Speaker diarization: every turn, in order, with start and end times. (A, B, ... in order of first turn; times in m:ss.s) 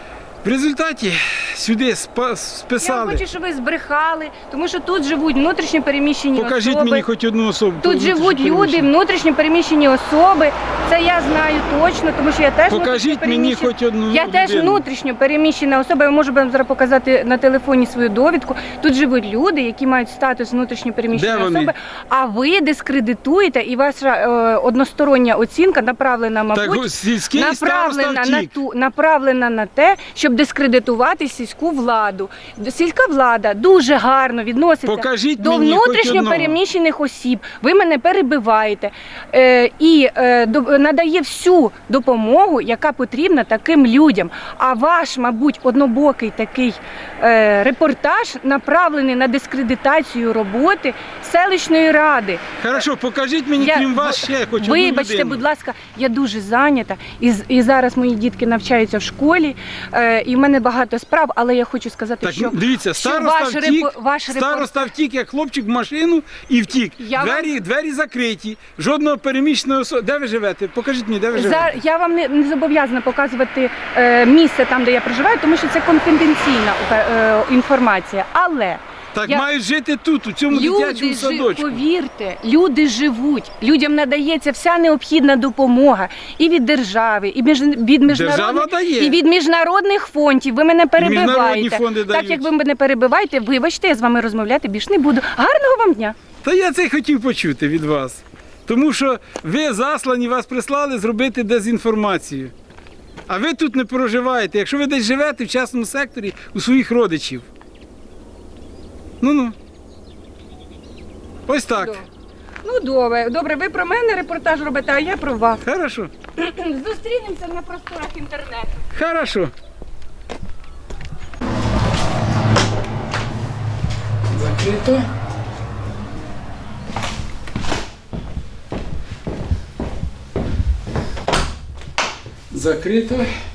0:00.4-0:03.2 A
0:02.8-0:07.0 B
0:06.4-0:08.9 A
0:07.8-0:52.4 B
0:12.7-0:14.8 A
0:21.1-0:21.7 A
0:26.5-0:28.5 A
0:34.9-0:36.6 A
0:52.6-0:55.4 A
0:53.6-1:04.9 B
1:02.2-1:11.7 A
1:07.0-1:07.5 B
1:11.3-1:19.5 B
1:19.2-1:21.8 A
1:20.5-1:36.2 B
1:28.1-1:29.2 A
1:31.0-1:32.5 A
1:36.4-1:42.5 A
1:43.3-1:47.5 A
1:49.2-1:49.6 A
1:51.5-1:52.0 A
1:51.8-1:52.1 B
1:52.6-1:55.6 B
1:55.6-1:56.1 A
1:56.4-1:58.8 B
1:59.0-1:59.5 A
2:04.3-2:05.0 A
2:12.5-2:13.3 A